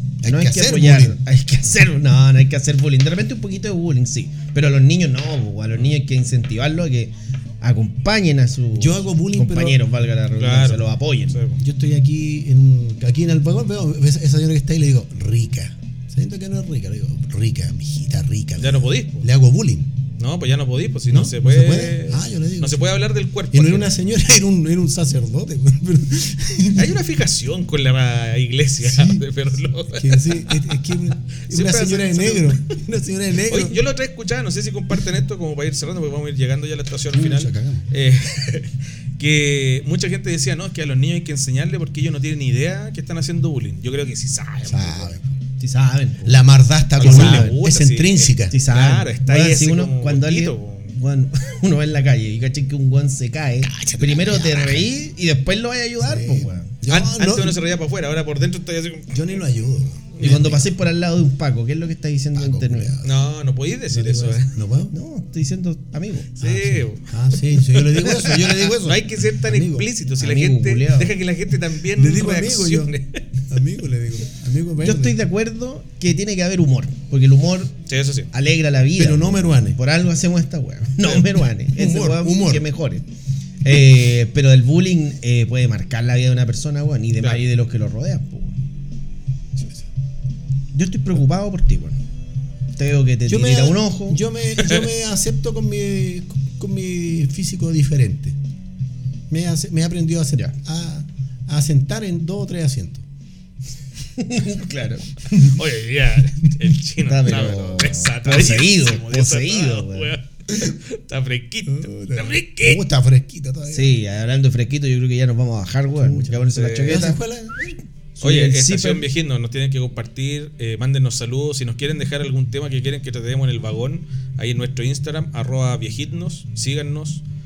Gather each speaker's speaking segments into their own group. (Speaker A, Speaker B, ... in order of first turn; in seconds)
Speaker A: 0.2-1.2, 8.7-9.8, 11.6-19.9, 21.1-27.0, 28.8-29.2, 29.9-33.8, 37.1-37.9, 44.6-45.4, 46.2-48.5, 53.6-54.9, 56.0-57.6, 59.1-60.7, 62.3-63.2, 63.9-64.9, 66.4-69.9, 71.9-72.9, 73.5-75.2, 79.0-79.8, 81.7-82.6, 93.3-98.4, 99.3-103.0, 111.7-113.9, 115.9-117.8
Speaker B: 0.2-11.4, 45.6-46.4, 47.0-47.6, 48.5-56.7, 60.2-63.0, 64.9-66.3, 70.2-71.1, 74.8-77.7, 78.3-83.0, 83.6-88.6, 90.7-92.0, 92.8-94.2, 104.2-105.5, 107.0-110.1, 113.7-117.2, 118.2-119.0
Speaker C: 10.4-11.6, 18.6-19.2, 20.2-23.9, 26.7-30.6, 31.2-32.6, 33.4-45.1, 47.0-51.0, 56.9-59.2, 60.2-60.6, 63.0-64.5, 66.4-73.4, 77.9-78.3, 94.6-94.9, 105.3-112.8, 116.5-117.0, 118.2-127.2